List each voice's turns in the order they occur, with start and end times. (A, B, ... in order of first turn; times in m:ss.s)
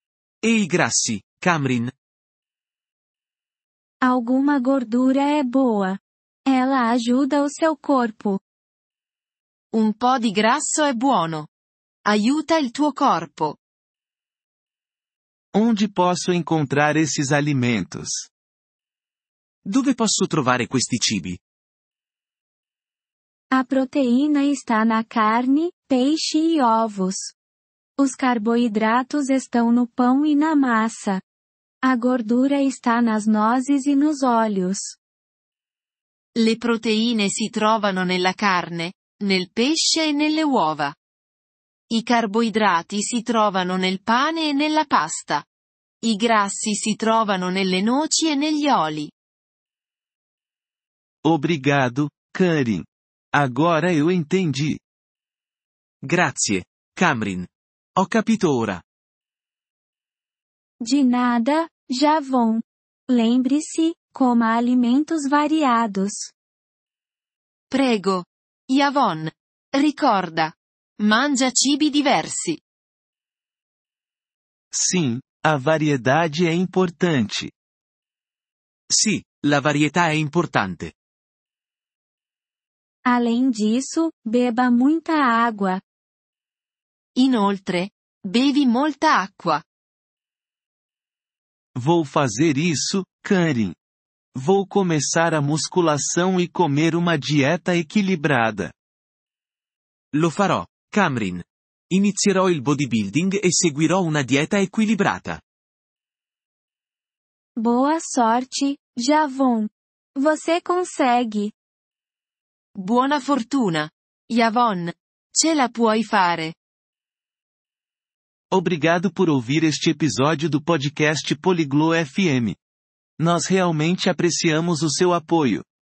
0:00.4-0:01.9 A
0:04.0-0:08.4 B
0:09.7-0:11.5 C
0:12.0-0:13.6 C
0:15.5-0:18.3 D
0:19.6-0:21.4 A
0:23.5-0:27.3 B
0:28.0-0:31.2 B
0:31.8-0:35.0 B
0:36.4-0:41.0 C
0:41.9-0:45.4 C
0:46.0-0:49.1 C
0:51.2-0:54.8 D
0:56.0-0:58.8 A
1:00.8-1:06.3 B
1:07.7-1:12.6 C
1:14.7-1:17.5 D
1:18.9-1:20.9 A
1:23.0-1:25.8 B
1:27.2-1:29.6 C
1:31.7-1:33.8 D
1:34.3-1:38.7 D
1:40.1-1:45.4 A
1:47.6-1:51.5 B
1:52.8-1:56.5 C
1:58.5-2:02.6 D
2:03.2-2:05.6 D